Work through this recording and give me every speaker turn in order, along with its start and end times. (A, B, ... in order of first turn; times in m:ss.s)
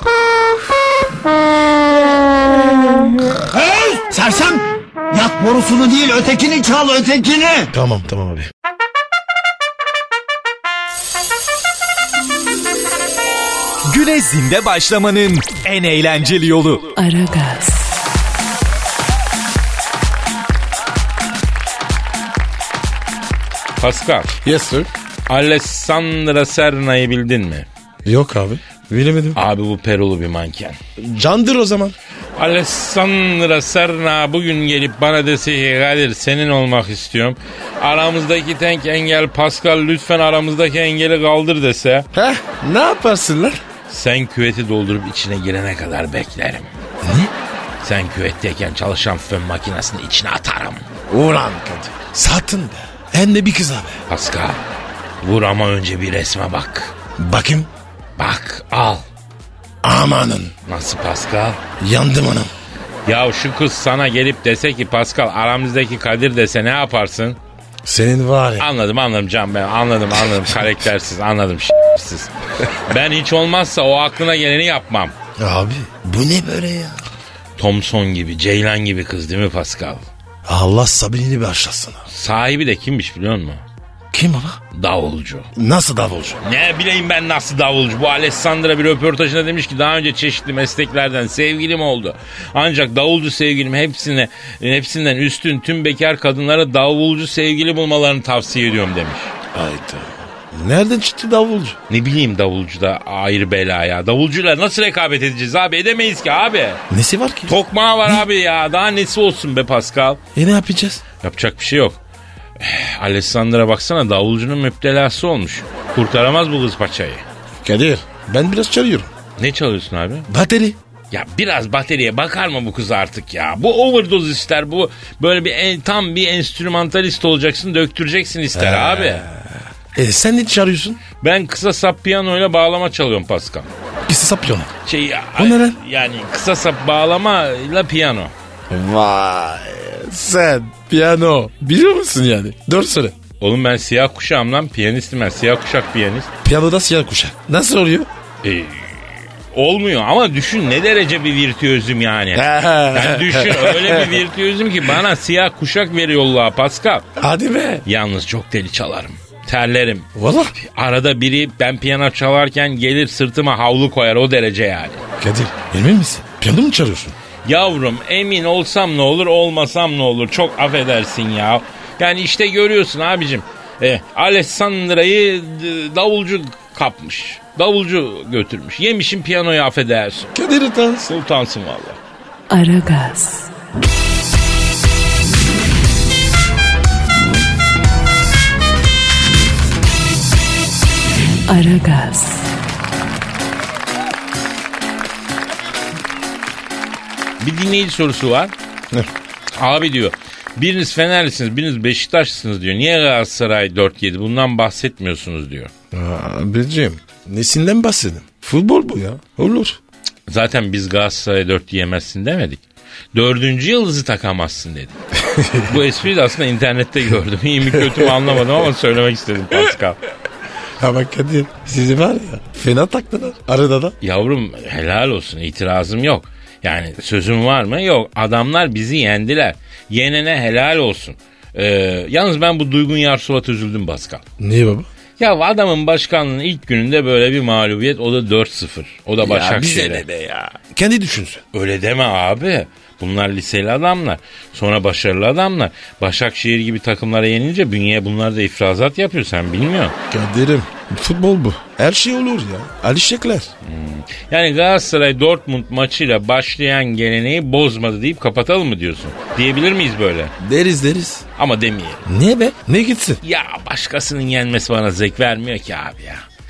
0:03.4-0:07.7 A
0:07.7-0:08.5 B
0:13.9-0:16.9 C
0:17.0-0:17.9 D
0:23.8-0:24.3 E
0:24.4-0:24.9 B
0:25.3-0:27.7 E
0:28.0-0:29.4 B
0:29.3-0:30.8 E
0:31.0-0:32.0 B
0:32.4-0:42.1 E
0:42.1-0:43.6 B
0:43.9-0:46.7 E
0:47.0-0:47.3 B
0:47.8-0:50.8 E
0:51.1-0:54.0 B
0:54.1-0:54.6 E
0:55.2-0:56.9 E
0:57.2-0:57.7 B
0:58.2-0:59.0 E
0:59.8-1:00.5 B
1:00.7-1:01.6 E
1:01.8-1:02.5 B
1:03.0-1:07.4 E
1:07.8-1:08.7 B
1:08.6-1:15.1 E
1:15.4-1:17.0 B
1:17.6-1:20.1 E
1:20.4-1:22.0 B
1:22.1-1:23.6 E
1:24.1-1:24.6 B
1:24.7-1:25.5 E
1:25.6-1:26.4 B
1:26.4-1:39.3 E
1:39.5-1:41.8 B
1:41.9-1:46.8 E
1:46.9-1:47.6 B
1:47.5-1:50.2 E
1:50.3-1:51.0 B
1:51.2-1:52.0 E
1:52.6-1:57.2 E
1:57.6-1:59.1 B
1:59.4-2:00.3 E
2:00.3-2:00.8 B
2:01.1-2:09.2 E
2:08.5-2:11.0 B
2:11.2-2:13.7 E
2:14.1-2:14.7 B
2:14.8-2:18.3 E
2:15.4-2:15.8 B
2:18.7-2:23.2 B
2:23.4-2:26.3 E
2:26.4-2:28.1 B
2:28.4-2:37.0 E
2:32.3-2:34.2 B
2:37.2-2:37.8 B
2:37.8-2:45.0 E
2:40.1-2:40.5 B
2:45.2-2:47.2 B
2:47.4-3:00.3 E
3:00.3-3:01.1 B
3:01.0-3:02.0 E
3:02.5-3:03.5 D
3:11.4-3:12.5 D
3:17.4-3:18.5 E
3:19.6-3:25.7 E
3:25.9-3:29.8 B
3:30.3-3:32.6 E
3:33.1-3:35.0 E
3:35.2-3:35.8 B
3:35.6-3:40.0 E
3:37.7-3:38.4 B
3:40.8-3:43.9 B
3:44.0-3:54.2 E
3:54.4-3:54.9 B
3:55.2-4:00.0 E
3:59.2-4:01.4 B
4:01.5-4:09.9 E
4:10.1-4:13.5 B
4:13.6-4:20.3 E
4:20.4-4:21.2 B
4:21.4-4:22.0 E
4:22.0-4:23.2 B
4:23.2-4:26.2 E